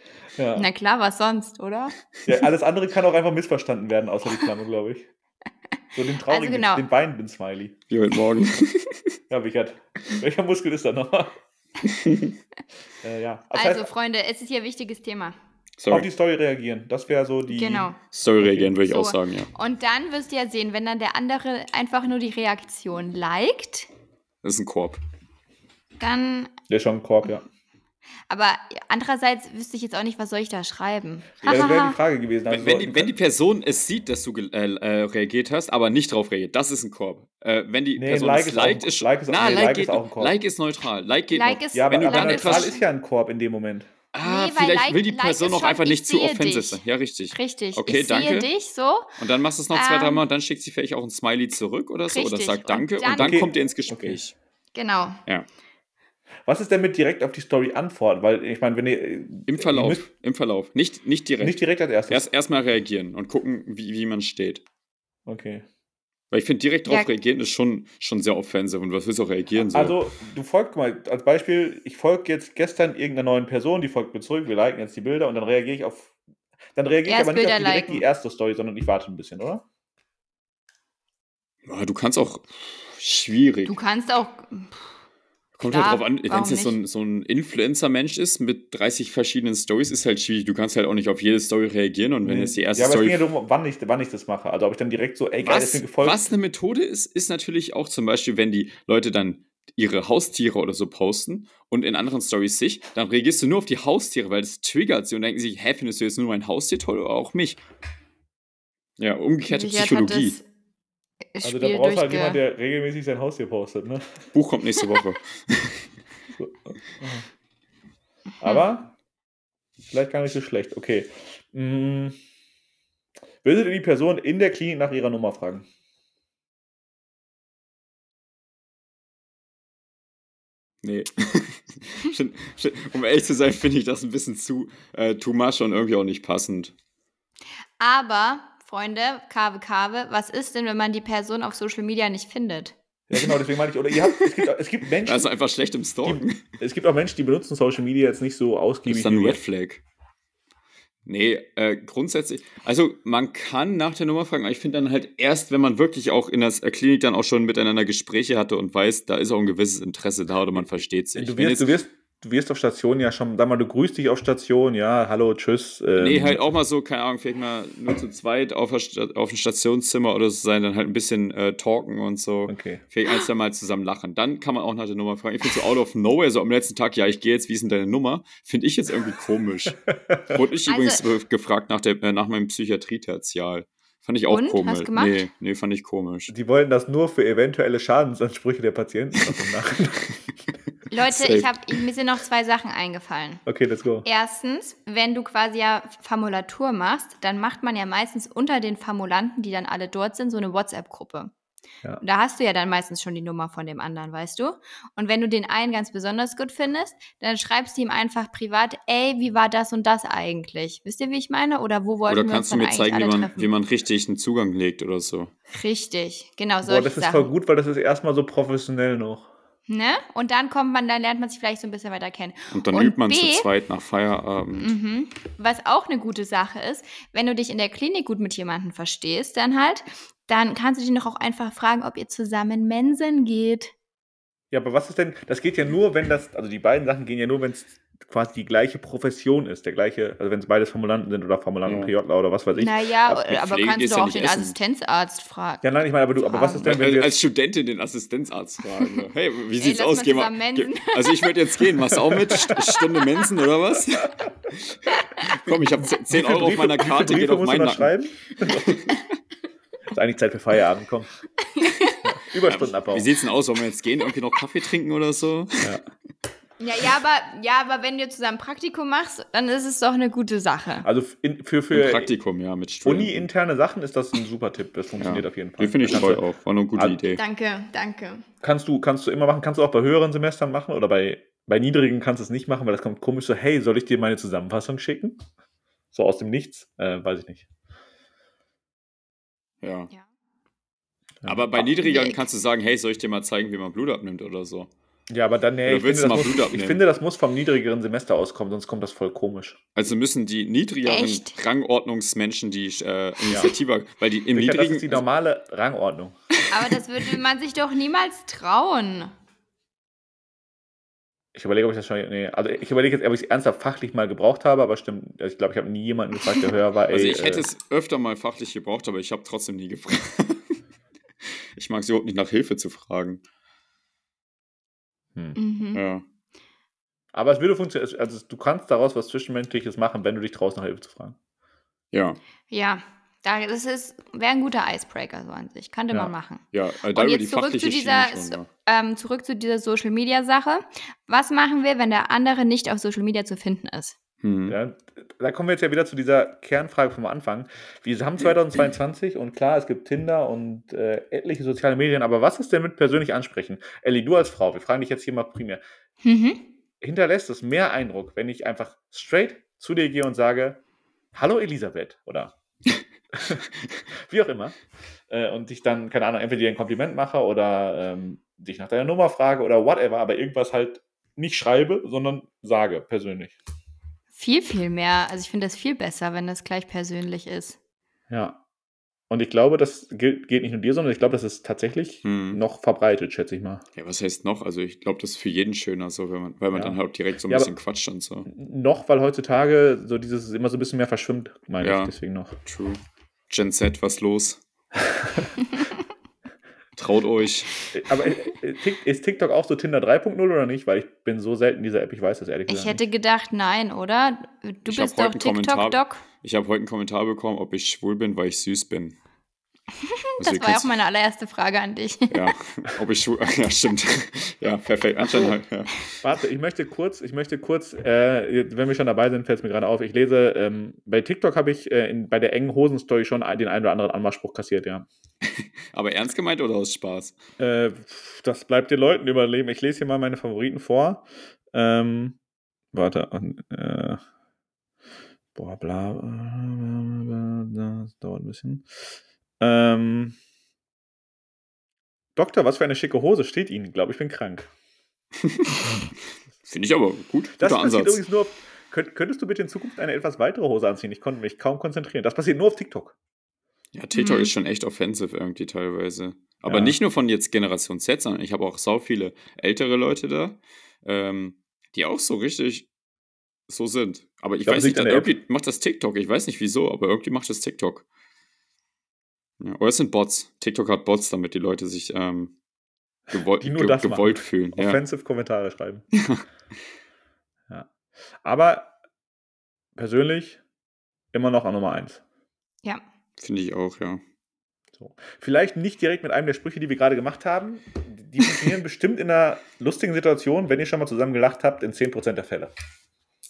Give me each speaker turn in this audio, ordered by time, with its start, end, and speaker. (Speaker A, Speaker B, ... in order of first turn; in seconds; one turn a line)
Speaker A: 0.4-0.7
Speaker B: 0.6-2.0
Speaker A: 2.3-5.1
Speaker A: 6.0-7.8
Speaker B: 6.3-6.8
Speaker C: 7.9-9.2
Speaker A: 9.3-11.4
Speaker C: 11.8-12.3
Speaker A: 13.0-13.9
Speaker B: 13.5-15.4
Speaker C: 15.8-16.1
Speaker A: 15.9-17.9
Speaker B: 17.5-18.0
Speaker C: 18.1-19.5
Speaker B: 18.8-23.9
Speaker C: 24.4-25.0
Speaker B: 26.0-26.5
Speaker A: 26.7-27.4
Speaker B: 28.3-32.0
Speaker A: 31.4-33.1
Speaker C: 32.5-42.7
Speaker A: 38.0-40.3
Speaker B: 41.3-42.8
Speaker A: 41.7-43.9
Speaker C: 44.1-48.5
Speaker B: 44.2-46.8
Speaker B: 47.3-49.2
Speaker C: 49.2-54.4
Speaker B: 49.7-50.2
Speaker B: 52.1-53.5
Speaker A: 53.1-54.2
Speaker B: 54.7-55.2
Speaker A: 56.5-60.1
Speaker C: 59.5-64.6
Speaker A: 61.4-62.2
Speaker A: 65.3-65.7
Speaker C: 66.3-70.0
Speaker A: 69.6-76.1
Speaker A: 76.8-79.6
Speaker B: 77.1-78.0
Speaker C: 81.7-83.8
Speaker B: 83.7-84.8
Speaker B: 85.6-86.8
Speaker C: 85.6-93.2
Speaker A: 92.2-96.3
Speaker C: 95.4-107.6
Speaker C: 109.0-110.4
Speaker B: 109.5-110.4
Speaker B: 111.3-112.4
Speaker A: 111.4-114.2
Speaker C: 114.3-115.9
Speaker A: 116.3-117.3
Speaker A: 118.4-118.9
Speaker A: 119.9-122.2
Speaker A: 123.4-125.7
Speaker C: 130.8-136.7
Speaker B: 137.8-142.8
Speaker A: 143.1-145.3
Speaker C: 145.1-146.4
Speaker A: 146.1-149.4
Speaker C: 148.8-149.8
Speaker C: 151.1-161.8
Speaker A: 161.2-166.4
Speaker C: 166.0-179.8
Speaker A: 172.5-172.8
Speaker C: 180.3-186.3
Speaker B: 180.7-181.1
Speaker B: 184.3-185.2
Speaker A: 186.3-190.2
Speaker B: 190.9-193.4
Speaker C: 191.1-191.6
Speaker A: 193.5-194.1
Speaker B: 194.0-201.3
Speaker B: 202.0-213.5
Speaker C: 212.1-215.3
Speaker B: 215.5-217.3
Speaker A: 216.6-219.3
Speaker B: 219.7-223.5
Speaker C: 222.5-224.7
Speaker B: 224.6-233.7
Speaker A: 234.5-242.7
Speaker C: 241.7-241.9
Speaker B: 242.6-245.6
Speaker C: 243.1-244.6
Speaker A: 245.6-247.2
Speaker B: 246.2-246.7
Speaker C: 246.6-257.9
Speaker B: 249.6-251.4
Speaker A: 252.2-252.6
Speaker A: 256.1-258.7
Speaker C: 258.5-258.9
Speaker A: 259.9-261.2
Speaker B: 261.4-262.0
Speaker A: 262.0-263.1
Speaker C: 262.4-265.8
Speaker B: 266.6-270.9
Speaker A: 270.8-272.1
Speaker C: 271.7-273.3
Speaker A: 272.9-276.2
Speaker C: 275.0-277.2
Speaker B: 277.2-278.3
Speaker A: 278.4-285.2
Speaker A: 285.9-287.5
Speaker C: 289.6-289.9
Speaker A: 291.2-291.6
Speaker C: 291.2-294.7
Speaker B: 291.8-292.2
Speaker A: 295.1-299.6
Speaker C: 295.7-296.8
Speaker C: 299.8-305.0
Speaker B: 300.9-301.4
Speaker A: 304.3-306.2
Speaker B: 306.5-309.1
Speaker A: 311.4-317.5
Speaker C: 316.9-320.6
Speaker C: 321.2-323.2
Speaker B: 325.4-325.8
Speaker C: 325.7-326.0
Speaker A: 327.1-331.2
Speaker C: 331.9-332.2
Speaker B: 332.5-344.0
Speaker C: 336.5-338.5
Speaker C: 344.2-344.6
Speaker A: 344.5-355.6
Speaker B: 356.0-356.4
Speaker A: 356.8-360.6
Speaker A: 361.1-362.3
Speaker A: 363.1-363.5
Speaker A: 364.0-364.6
Speaker A: 365.1-373.4
Speaker B: 374.2-377.6
Speaker A: 378.1-378.4
Speaker A: 379.1-383.6
Speaker C: 382.0-382.4
Speaker C: 383.8-388.3
Speaker A: 386.5-387.5
Speaker A: 388.3-392.4
Speaker C: 391.6-394.4
Speaker A: 394.9-395.3
Speaker C: 396.8-397.6
Speaker A: 397.7-402.8
Speaker B: 402.5-406.0
Speaker C: 404.7-409.0
Speaker B: 409.8-412.3
Speaker C: 410.2-410.7
Speaker C: 412.1-415.8
Speaker A: 416.0-424.9
Speaker C: 425.2-427.2
Speaker A: 427.4-432.2
Speaker A: 432.7-434.0
Speaker A: 435.4-438.7
Speaker A: 439.4-440.2
Speaker A: 442.2-444.5
Speaker C: 445.2-445.8
Speaker C: 446.4-448.0
Speaker A: 447.4-453.0
Speaker C: 453.7-462.7
Speaker B: 453.9-454.3
Speaker A: 456.4-456.8
Speaker C: 463.5-467.9
Speaker A: 464.4-465.1
Speaker C: 469.4-472.3
Speaker C: 473.1-474.8
Speaker A: 473.4-475.9
Speaker C: 475.9-476.2
Speaker A: 478.2-478.7
Speaker A: 479.8-480.4
Speaker A: 481.1-482.0
Speaker C: 483.2-484.0
Speaker A: 484.8-492.5